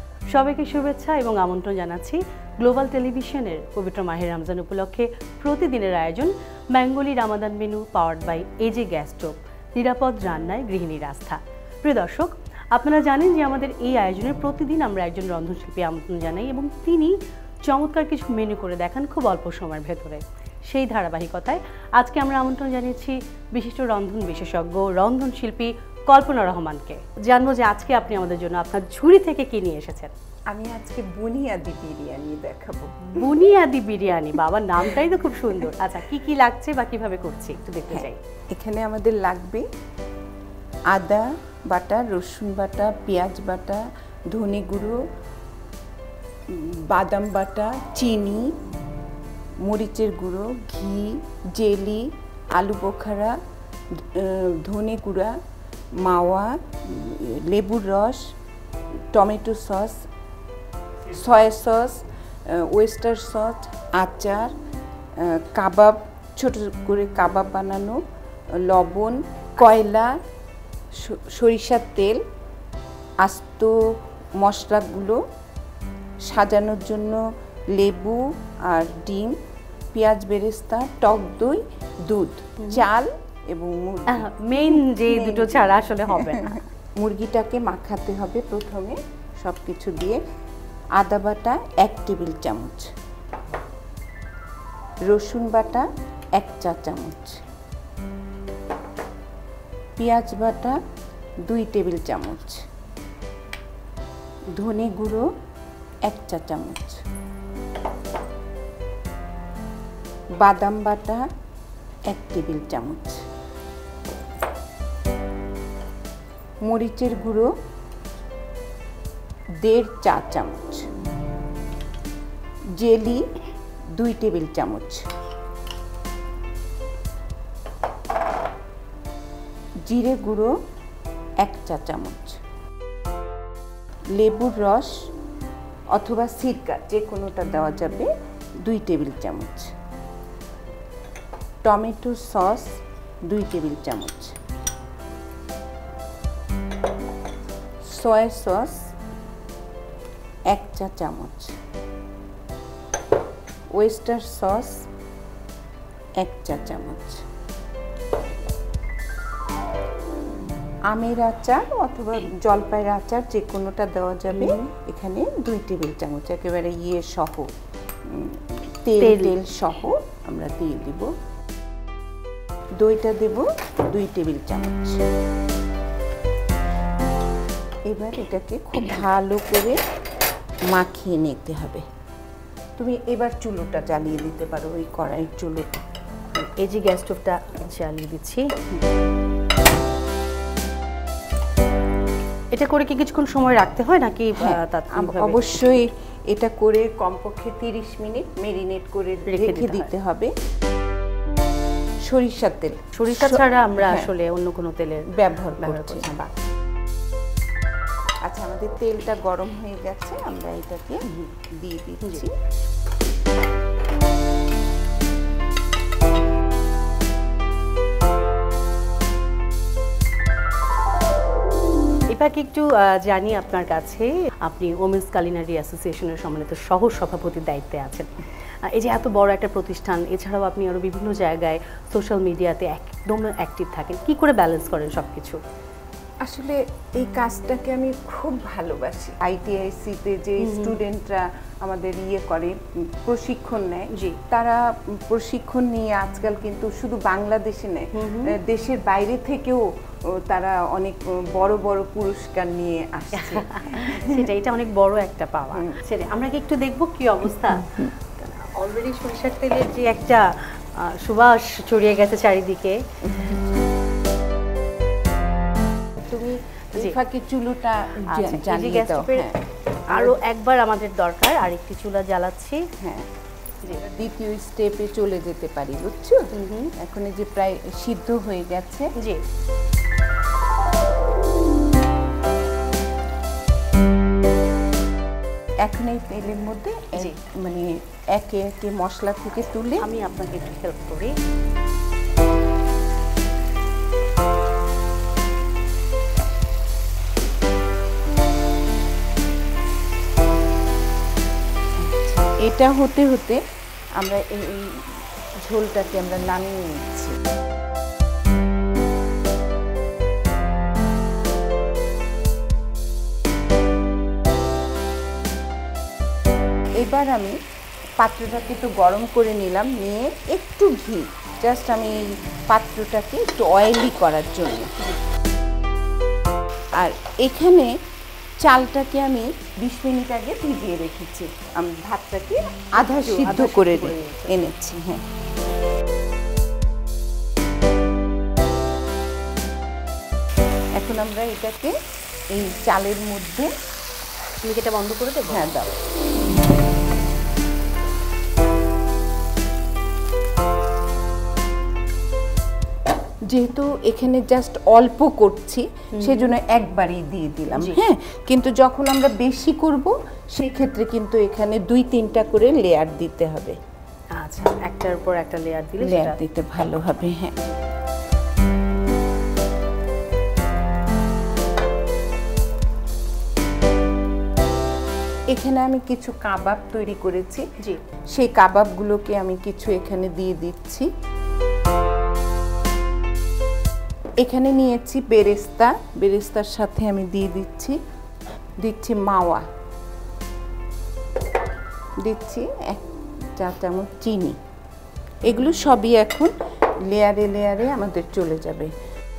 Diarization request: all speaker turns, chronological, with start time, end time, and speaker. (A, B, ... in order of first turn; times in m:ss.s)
0:00.3-0:30.1 A
0:30.5-0:33.4 B
0:33.1-0:38.2 A
0:37.9-0:39.6 B
0:40.9-0:45.0 B
0:46.5-0:48.5 B
0:49.6-0:53.4 B
0:54.0-0:55.4 B
0:56.0-0:58.3 B
0:59.1-1:00.1 B
1:01.1-1:04.5 B
1:05.2-1:08.0 B
1:08.6-1:10.2 B
1:11.0-1:12.2 B
1:13.2-1:13.7 B
1:14.4-1:15.2 B
1:16.3-1:17.2 B
1:17.7-1:19.4 B
1:19.9-1:30.2 B
1:22.6-1:22.9 A
1:24.1-1:26.6 A
1:31.0-1:32.9 B
1:35.1-1:37.4 B
1:40.0-1:40.8 B
1:41.5-1:42.6 B
1:44.6-1:45.2 B
1:46.1-1:47.0 B
1:50.4-1:51.2 B
1:52.1-1:53.2 B
1:56.6-1:57.5 B
1:59.6-2:00.9 B
2:02.8-2:03.2 B
2:04.0-2:05.1 B
2:09.9-2:10.6 B
2:11.4-2:12.4 B
2:14.1-2:15.1 B
2:15.9-2:18.1 B
2:18.6-2:19.7 B
2:21.6-2:24.4 B
2:27.8-2:28.8 B
2:30.5-2:31.5 B
2:33.8-2:34.9 B
2:36.2-2:37.2 B
2:40.9-2:47.5 B
2:44.4-2:44.7 A
2:48.1-2:51.1 B
2:49.0-2:49.4 A
2:52.8-2:55.0 B
2:57.9-2:59.8 B
3:00.7-3:01.8 B
3:02.8-3:05.8 B
3:06.3-3:08.5 A
3:12.5-3:15.4 A
3:14.4-3:20.3 B
3:19.3-3:19.9 A
3:22.0-3:24.1 B
3:23.0-3:26.1 A
3:25.1-3:26.3 B
3:28.2-3:31.0 B
3:31.6-3:32.3 B
3:42.1-3:48.2 A
3:48.7-3:55.4 A
3:56.2-4:09.6 B
4:00.4-4:00.8 A
4:03.9-4:04.2 A
4:08.0-4:08.3 A
4:10.2-4:14.3 B
4:13.2-4:22.8 A
4:15.5-4:15.8 B
4:17.6-4:17.8 B
4:23.0-4:23.6 B
4:26.0-4:29.4 B
4:28.1-4:29.3 A
4:29.9-4:32.6 A
4:29.9-4:30.2 B
4:32.8-4:33.1 B
4:33.7-4:38.9 B
4:36.3-4:36.7 A
4:45.6-4:49.8 B
4:49.8-4:51.1 A
5:01.9-5:03.4 B
5:04.0-5:07.2 B
5:16.8-5:17.4 B
5:18.0-5:24.7 B
5:26.8-5:27.7 B
5:28.4-5:35.0 B
5:32.8-5:34.4 A
5:40.8-5:41.7 B
5:42.3-5:43.5 B
5:44.4-5:45.5 A
5:45.3-5:45.7 B
5:53.3-6:03.6 B
5:56.0-5:56.3 A
6:04.2-6:06.2 A
6:05.8-6:07.4 B
6:15.3-6:17.4 B
6:18.1-6:20.9 B
6:24.2-6:27.8 B
6:28.6-6:29.4 B
6:32.0-6:34.4 B
6:35.2-6:36.3 B
6:36.9-6:38.7 B